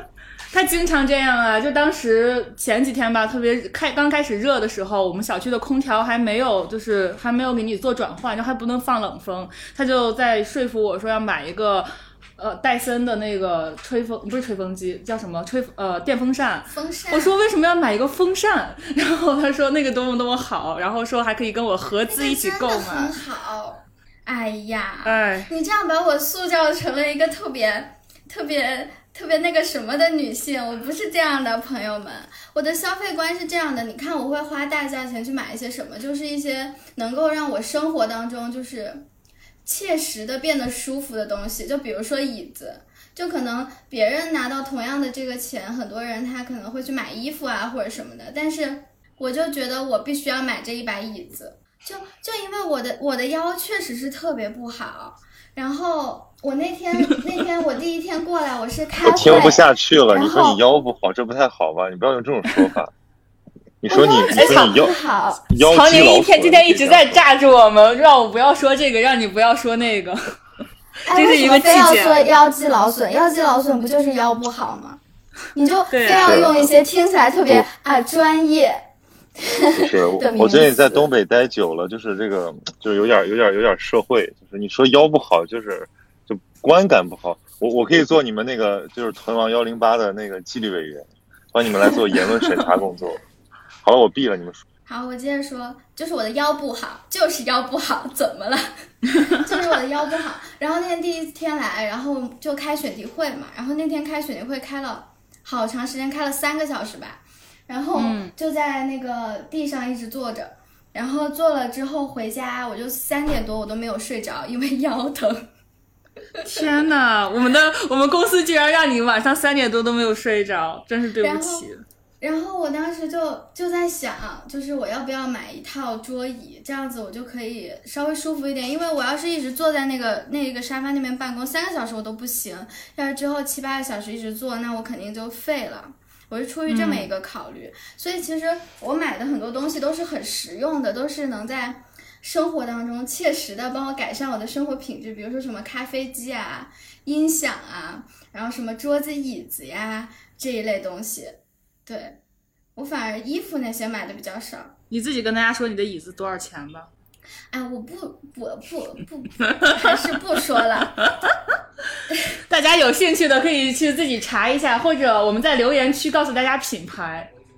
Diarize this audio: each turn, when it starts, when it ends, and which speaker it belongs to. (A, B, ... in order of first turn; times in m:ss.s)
0:00.5-0:23.2 A
0:16.7-0:17.3 B
0:22.1-0:39.0 B
0:25.0-0:25.5 A
0:39.6-1:00.6 B
0:59.0-1:02.9 C
1:03.8-1:07.2 C
1:03.9-1:05.4 B
1:04.3-1:05.0 A
1:05.6-1:10.4 A
1:11.1-1:15.0 B
1:11.1-1:12.3 A
1:15.6-1:18.8 B
1:15.9-1:16.5 A
1:16.1-1:16.6 C
1:19.4-1:21.1 B
1:19.8-1:33.2 C
1:33.8-1:34.6 C
1:34.9-1:55.5 B
1:48.0-1:48.3 A
1:56.4-2:01.8 A
2:01.2-2:01.7 B
2:02.2-2:32.2 B
2:16.7-2:17.1 A
2:32.8-2:34.7 B
2:34.9-2:36.9 A
2:37.5-2:41.0 B
2:39.6-2:39.9 A
2:41.0-2:41.4 A
2:42.5-2:47.3 A